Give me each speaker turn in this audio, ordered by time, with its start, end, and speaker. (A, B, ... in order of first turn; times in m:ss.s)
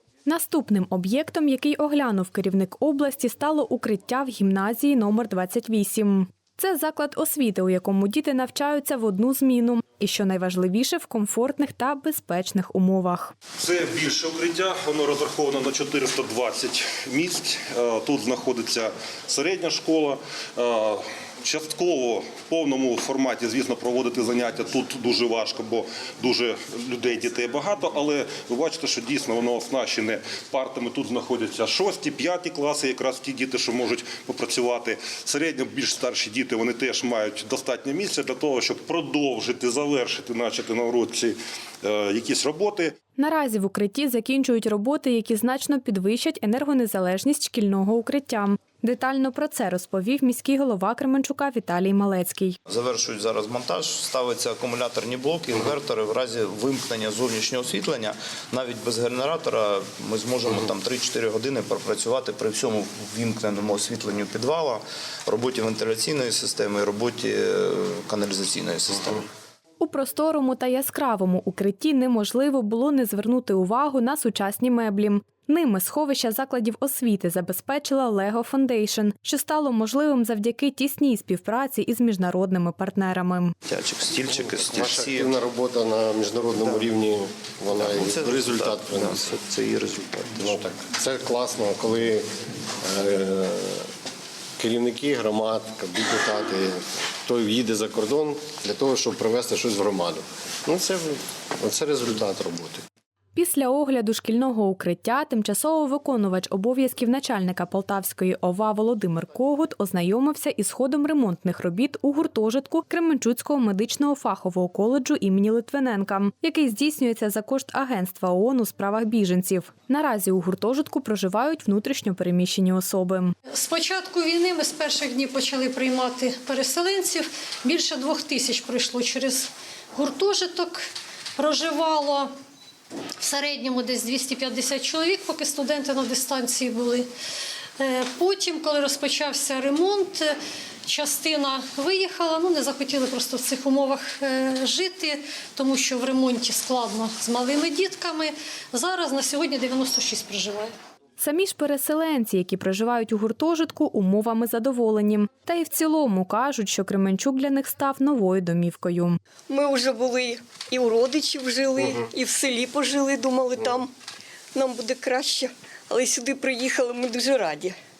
0:00.2-0:13.3 A
0:13.6-0:42.9 B
0:43.2-0:52.6 A
0:52.7-1:09.2 C
1:09.8-1:23.5 A
1:23.6-1:25.4 C
1:26.2-1:26.6 D
1:26.6-1:26.9 C
1:27.7-1:30.6 C
1:31.0-1:32.2 D
1:32.9-1:33.5 D
1:34.6-1:36.8 D
1:37.3-1:41.0 D
1:41.6-1:42.8 D
1:43.3-2:03.3 A
2:03.5-2:12.3 E
2:13.2-2:17.1 E
2:17.8-2:30.7 E
2:31.2-2:39.2 A
2:39.5-2:43.9 F
2:44.5-2:47.8 F